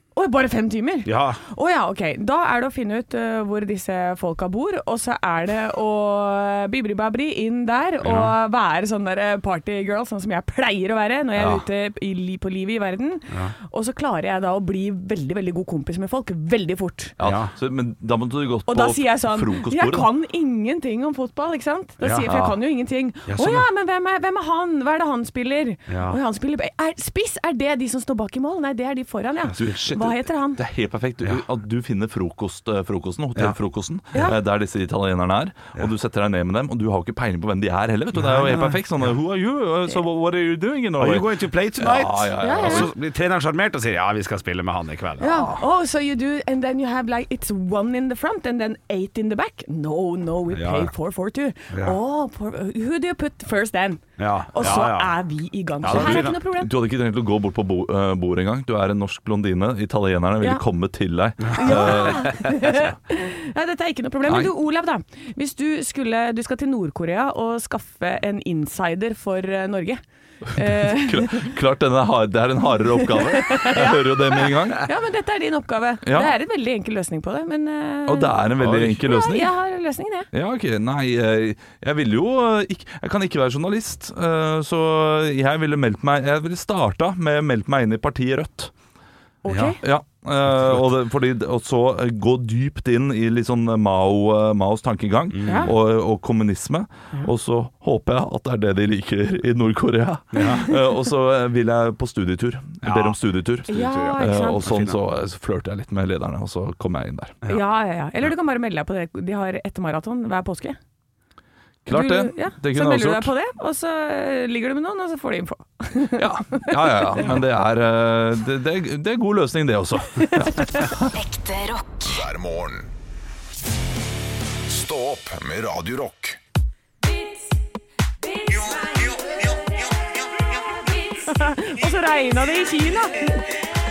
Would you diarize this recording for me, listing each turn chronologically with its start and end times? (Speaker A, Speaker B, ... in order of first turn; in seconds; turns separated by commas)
Speaker A: 0.1-17.2, Speaker B: 1.1-1.4, Speaker B: 8.0-8.3, Speaker C: 11.4-11.6, Speaker C: 17.2-20.1, Speaker B: 17.2-17.5, Speaker A: 18.7-30.6, Speaker B: 22.0-22.3, Speaker C: 22.2-22.6, Speaker B: 23.3-23.7, Speaker B: 25.9-26.2, Speaker C: 29.6-42.9, Speaker B: 38.1-38.8, Speaker B: 41.0-45.4, Speaker A: 42.4-42.9, Speaker A: 45.2-56.7, Speaker B: 50.5-50.9, Speaker B: 51.7-52.0, Speaker B: 54.2-55.1, Speaker B: 55.8-56.3, Speaker C: 55.9-63.0, Speaker B: 61.5-62.1, Speaker A: 61.5-71.5, Speaker C: 64.3-64.5, Speaker C: 70.6-74.9, Speaker A: 73.0-80.3, Speaker C: 76.0-76.3, Speaker C: 78.1-79.5, Speaker C: 80.3-88.7, Speaker A: 89.4-89.8, Speaker B: 89.5-89.8, Speaker C: 89.8-107.4, Speaker B: 95.3-95.7, Speaker A: 95.5-95.7, Speaker B: 100.3-100.7, Speaker A: 100.4-100.8, Speaker B: 102.8-103.2, Speaker A: 103.7-104.6, Speaker B: 103.7-105.0, Speaker A: 107.5-110.8, Speaker C: 111.8-113.3, Speaker A: 111.9-117.3, Speaker C: 116.2-121.2, Speaker A: 120.2-121.0, Speaker D: 122.0-122.9, Speaker D: 124.7-126.4, Speaker A: 128.3-129.4, Speaker A: 130.9-133.5